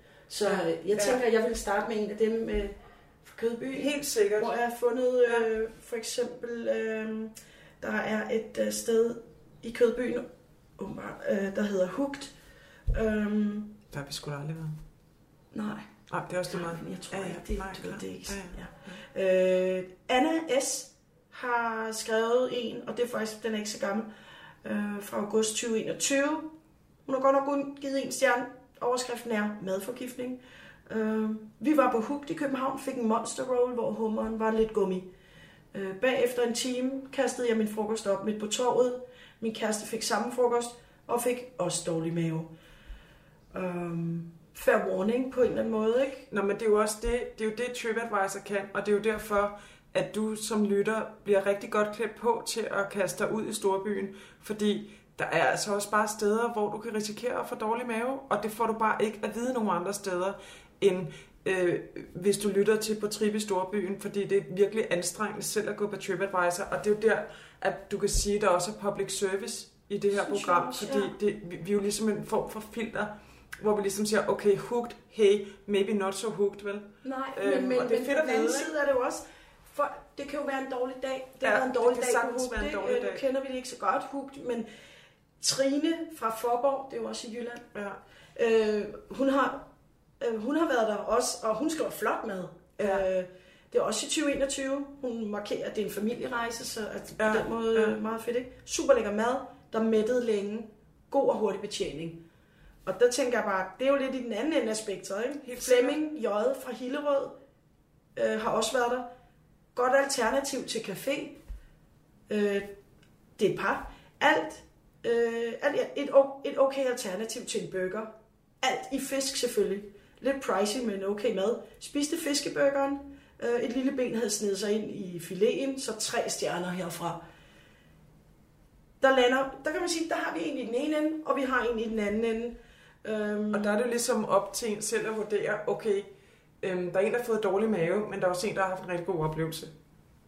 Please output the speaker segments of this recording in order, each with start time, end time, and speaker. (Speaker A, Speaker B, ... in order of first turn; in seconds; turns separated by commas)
Speaker A: 0.3-12.3, Speaker B: 0.4-1.2, Speaker B: 3.7-4.6, Speaker A: 12.9-13.8, Speaker B: 13.9-14.8, Speaker A: 15.5-15.9, Speaker B: 16.1-19.0, Speaker A: 16.5-24.1, Speaker A: 24.6-26.5, Speaker A: 27.1-35.1, Speaker A: 35.7-42.5, Speaker A: 43.5-46.3, Speaker B: 46.3-78.7, Speaker A: 70.1-71.1, Speaker A: 77.0-84.7, Speaker B: 81.4-83.2, Speaker A: 85.4-87.6, Speaker B: 87.7-88.0, Speaker A: 88.3-89.7, Speaker A: 90.2-102.2, Speaker B: 92.8-93.0, Speaker B: 97.2-98.0, Speaker A: 102.8-107.4, Speaker B: 105.4-106.0, Speaker A: 108.2-109.1, Speaker A: 109.7-111.4, Speaker A: 112.3-112.7, Speaker A: 113.4-127.2, Speaker A: 129.0-133.8, Speaker B: 133.5-136.1, Speaker B: 136.6-139.7